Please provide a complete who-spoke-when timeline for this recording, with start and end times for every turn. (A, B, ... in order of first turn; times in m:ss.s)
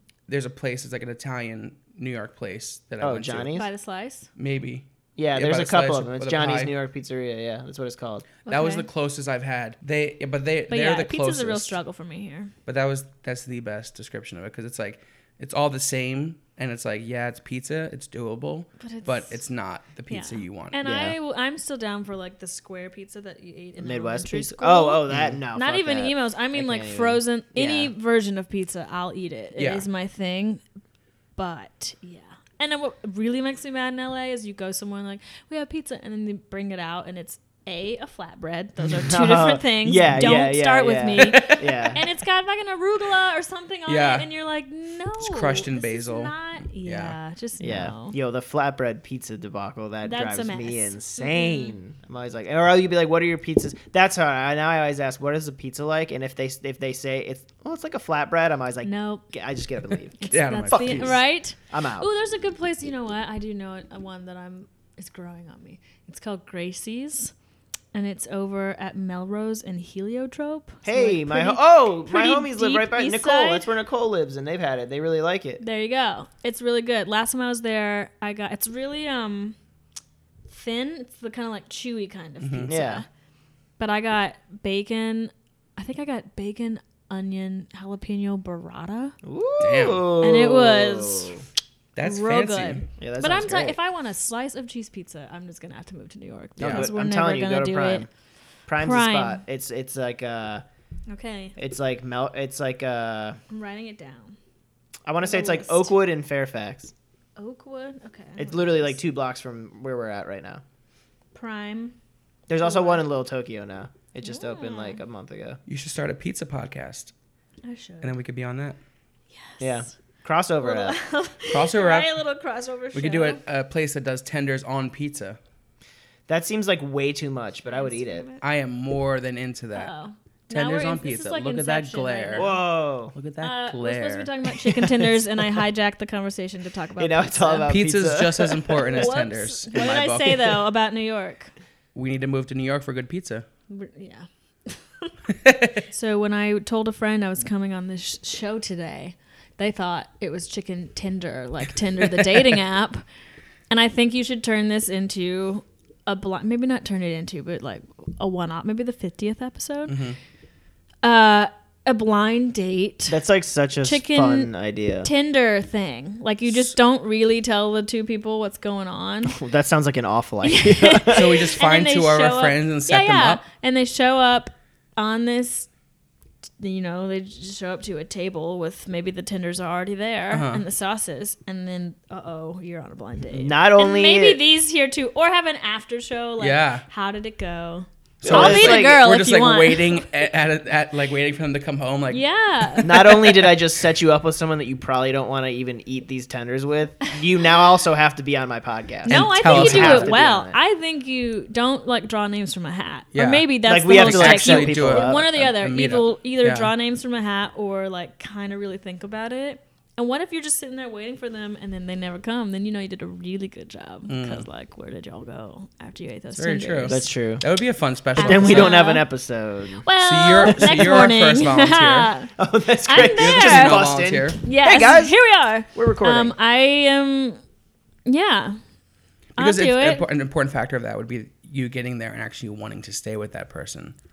0:00.3-0:03.6 A
0:03.0-0:03.7 B
0:03.5-0:04.3 C
0:04.4-0:06.7 A
0:05.2-0:08.3 B
0:08.4-0:08.9 C
0:08.5-0:11.8 A
0:10.7-0:12.5 C
0:12.7-0:20.8 A
0:18.8-0:19.4 C
0:20.1-0:30.6 C
0:20.8-0:21.2 B
0:23.8-0:27.9 B
0:25.1-0:25.4 A
0:29.6-0:29.9 A
0:31.4-0:48.2 C
0:38.9-0:42.0 B
0:41.2-0:41.9 A
0:43.9-0:44.3 A
0:45.2-0:47.2 A
0:47.6-1:00.2 B
0:50.0-0:51.8 C
0:58.8-0:59.2 C
1:00.2-1:07.3 C
1:00.2-1:01.2 A
1:00.7-1:02.1 B
1:07.9-1:13.7 C
1:10.8-1:15.6 B
1:15.6-1:19.6 C
1:20.5-1:23.1 C
1:22.4-1:22.7 A
1:22.7-1:23.0 B
1:23.8-1:29.2 C
1:29.2-1:31.4 B
1:29.6-1:30.1 A
1:30.2-1:31.4 C
1:32.0-1:32.9 A
1:32.0-1:38.1 C
1:33.0-1:33.8 B
1:36.6-1:36.9 A
1:36.6-1:38.1 B
1:38.7-1:40.6 B
1:38.8-1:39.4 C
1:41.1-1:41.6 C
1:41.6-1:43.4 B
1:43.5-1:44.4 C
1:45.0-1:46.9 B
1:45.2-1:46.0 C
1:47.4-1:49.0 C
1:48.4-1:50.6 B
1:51.3-1:52.0 C
1:52.5-1:55.6 B
1:52.6-1:53.1 C
1:54.2-1:55.0 C
1:55.7-1:57.1 A
1:57.6-1:58.2 C
1:58.0-1:58.8 A
1:59.3-1:59.9 C
1:59.6-2:01.0 B
2:00.6-2:03.4 C
2:01.5-2:02.2 A
2:02.9-2:05.4 A
2:06.3-2:08.3 B
2:07.7-2:08.4 C
2:08.4-2:09.9 A
2:09.8-2:12.6 C
2:10.5-2:12.5 A
2:12.4-2:13.2 B
2:13.1-2:14.3 A
2:13.4-2:17.8 C
2:14.7-2:15.2 B
2:17.0-2:19.1 B
2:17.7-2:20.6 A
2:18.9-2:21.5 C
2:22.0-2:23.5 A
2:23.7-2:25.1 C
2:25.4-2:25.8 A
2:25.9-2:33.0 C
2:33.7-2:40.0 C
2:39.9-2:40.2 A
2:41.0-2:43.2 C
2:43.1-2:45.1 B
2:43.8-2:44.5 C
2:45.0-2:49.4 C
2:46.4-2:46.7 A
2:49.3-2:51.5 B
2:50.4-2:55.7 C
2:51.1-2:53.4 A
2:56.6-3:10.0 C
3:00.3-3:00.6 A
3:03.3-3:04.4 B
3:06.4-3:06.8 A
3:08.2-3:12.2 A
3:08.2-3:09.0 B
3:12.1-3:13.5 C
3:12.8-3:20.6 B
3:19.0-3:37.0 C
3:19.1-3:20.1 A
3:23.1-3:26.7 A
3:23.6-3:25.4 B
3:34.1-3:34.4 A
3:36.4-3:38.8 A
3:36.9-3:37.4 B
3:38.2-3:39.1 C
3:38.2-3:39.8 B
3:39.8-3:42.3 C
3:40.0-3:42.1 A
3:40.4-3:41.1 B
3:42.4-3:46.4 B
3:42.9-3:43.8 C
3:43.2-3:44.4 A
3:44.4-3:47.4 C
3:48.1-3:48.6 C
3:49.4-3:50.1 C
3:49.4-3:54.0 A